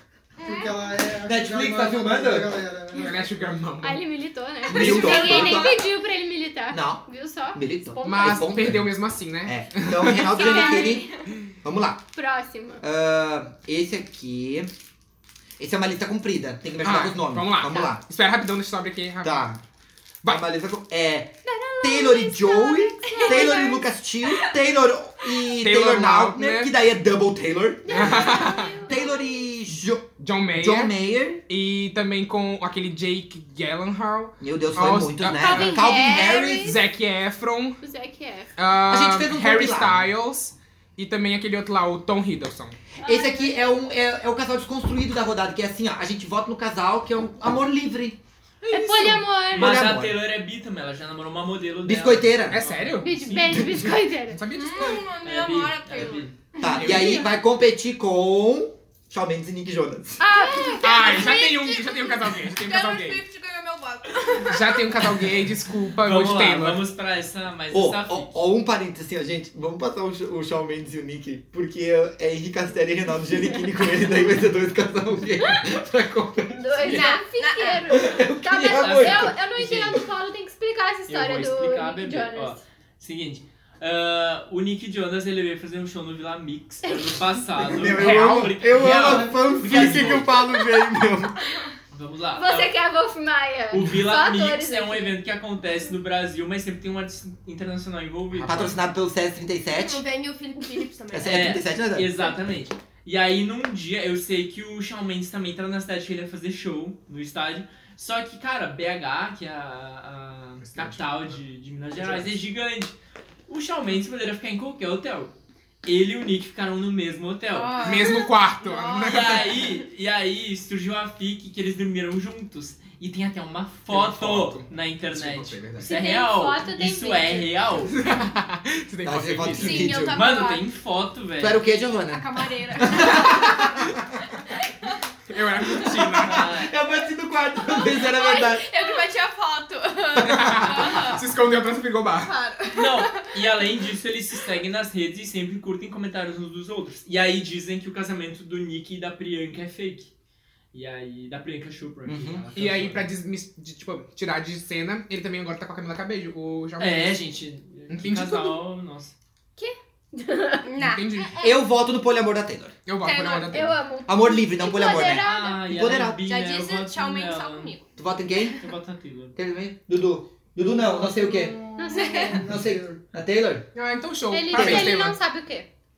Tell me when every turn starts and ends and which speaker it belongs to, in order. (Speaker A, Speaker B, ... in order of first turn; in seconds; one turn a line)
Speaker A: 0.4-3.3
Speaker B: 0.4-0.8
Speaker C: 1.2-2.6
Speaker D: 2.9-4.0
Speaker E: 3.8-8.7
Speaker D: 4.7-5.7
Speaker C: 4.7-5.8
Speaker C: 6.7-8.9
Speaker D: 8.0-10.5
Speaker C: 9.4-11.1
Speaker E: 10.2-11.1
Speaker B: 10.5-11.0
Speaker C: 11.6-12.1
Speaker E: 12.1-12.8
Speaker C: 12.8-14.7
Speaker C: 15.6-18.0
Speaker D: 16.8-19.4
Speaker C: 19.2-19.6
Speaker C: 20.2-31.4
Speaker E: 21.4-23.8
Speaker B: 23.1-23.6
Speaker D: 25.6-26.7
Speaker E: 27.8-29.1
Speaker D: 27.9-28.8
Speaker D: 30.2-30.9
Speaker D: 31.5-37.8
Speaker C: 34.4-36.7
Speaker E: 35.4-36.8
Speaker E: 37.8-38.5
Speaker D: 38.5-42.8
Speaker C: 38.9-40.1
Speaker C: 43.0-48.2
Speaker E: 43.0-43.6
Speaker E: 48.7-49.7
Speaker C: 48.7-50.1
Speaker F: 49.5-53.0
Speaker C: 51.8-52.6
Speaker D: 52.5-55.0
Speaker E: 53.0-54.4
Speaker C: 53.6-53.9
Speaker B: 54.5-56.3
Speaker F: 55.2-56.3
Speaker E: 56.6-57.2
Speaker C: 56.6-60.2
Speaker D: 56.8-57.2
Speaker E: 60.2-61.4
Speaker B: 60.3-65.3
Speaker D: 60.8-63.2
Speaker D: 64.4-66.8
Speaker F: 66.0-68.4
Speaker C: 67.7-77.0
Speaker E: 76.5-82.6
Speaker B: 76.8-77.9
Speaker C: 77.9-80.0
Speaker F: 78.7-80.0
Speaker F: 81.1-90.3
Speaker E: 86.8-87.3
Speaker C: 87.6-91.4
Speaker D: 87.9-88.9
Speaker F: 91.9-92.7
Speaker E: 92.3-95.1
Speaker F: 93.7-98.8
Speaker C: 98.4-100.0
Speaker B: 99.7-101.6
Speaker C: 101.1-102.1
Speaker F: 101.2-112.9
Speaker D: 110.6-111.0
Speaker F: 113.5-115.3
Speaker F: 115.8-117.9
Speaker B: 117.5-119.7
Speaker D: 117.8-119.6
Speaker F: 119.0-127.9
Speaker D: 123.9-126.0
Speaker E: 125.8-127.5
Speaker D: 127.9-129.9
Speaker C: 129.0-130.2
Speaker F: 129.4-131.6
Speaker B: 129.5-130.6
Speaker C: 131.4-134.2
Speaker B: 132.0-133.9
Speaker B: 134.5-134.9
Speaker D: 135.3-136.5
Speaker C: 136.0-138.7
Speaker F: 136.2-136.7
Speaker B: 137.6-141.2
Speaker C: 140.2-140.6
Speaker D: 140.3-142.3
Speaker B: 142.2-143.3
Speaker F: 142.7-150.1
Speaker F: 150.7-153.0
Speaker C: 152.0-152.4
Speaker D: 152.5-157.2
Speaker F: 156.8-159.1
Speaker D: 157.9-158.6
Speaker E: 159.6-160.7
Speaker B: 160.6-161.5
Speaker D: 160.8-161.4
Speaker C: 161.4-162.8
Speaker D: 162.8-163.8
Speaker B: 163.0-163.6
Speaker E: 163.5-165.6
Speaker C: 164.1-166.2
Speaker F: 165.0-167.8
Speaker B: 166.2-167.8
Speaker C: 168.0-168.6
Speaker F: 168.5-169.3
Speaker C: 169.3-171.6
Speaker A: 170.6-173.0
Speaker E: 171.8-172.4
Speaker B: 171.9-172.4
Speaker C: 172.4-173.7
Speaker D: 173.7-175.2
Speaker E: 174.3-175.7
Speaker C: 174.5-174.9